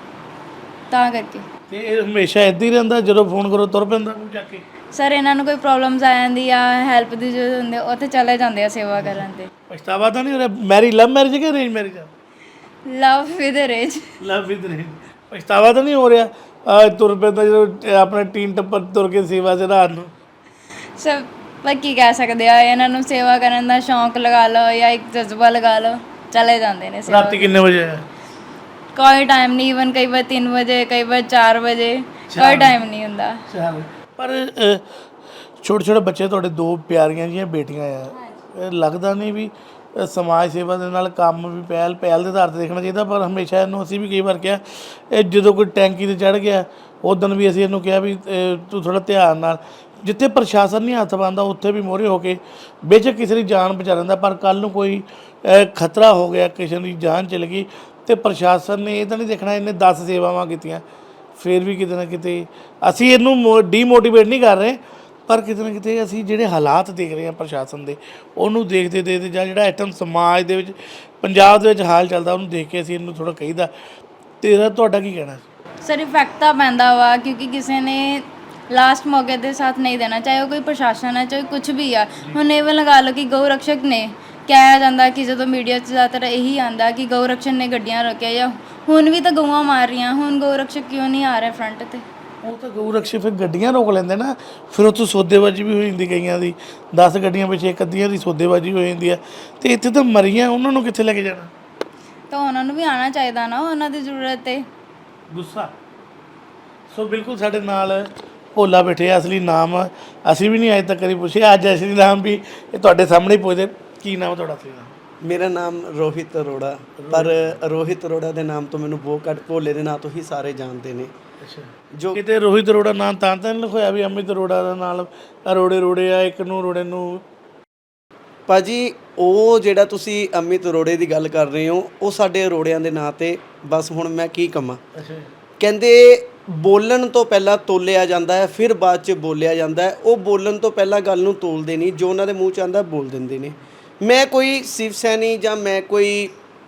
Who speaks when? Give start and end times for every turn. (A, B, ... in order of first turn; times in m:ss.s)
0:00.9-0:01.4 A
0:01.7-0:04.6 B
0:04.9-0:09.5 A
0:09.7-0:12.1 B
0:12.9-0:14.0 A
0:14.2-0:20.1 B
0:21.0-0:27.5 A
0:27.1-0:28.0 B
0:28.9-0:33.4 A
0:32.3-0:32.8 B
0:33.5-0:34.8 B
0:35.6-1:00.8 B
1:01.4-1:13.7 B
1:14.4-1:15.4 B
1:15.8-1:32.0 A
1:32.4-1:41.5 B
1:42.3-1:44.6 A
1:45.3-1:45.7 B
1:46.9-1:54.9 B
1:55.2-2:01.1 C
1:57.0-1:57.4 B
2:01.4-2:07.2 B
2:01.9-2:02.2 C
2:08.5-2:14.8 C
2:15.0-2:15.3 B
2:15.6-2:26.3 C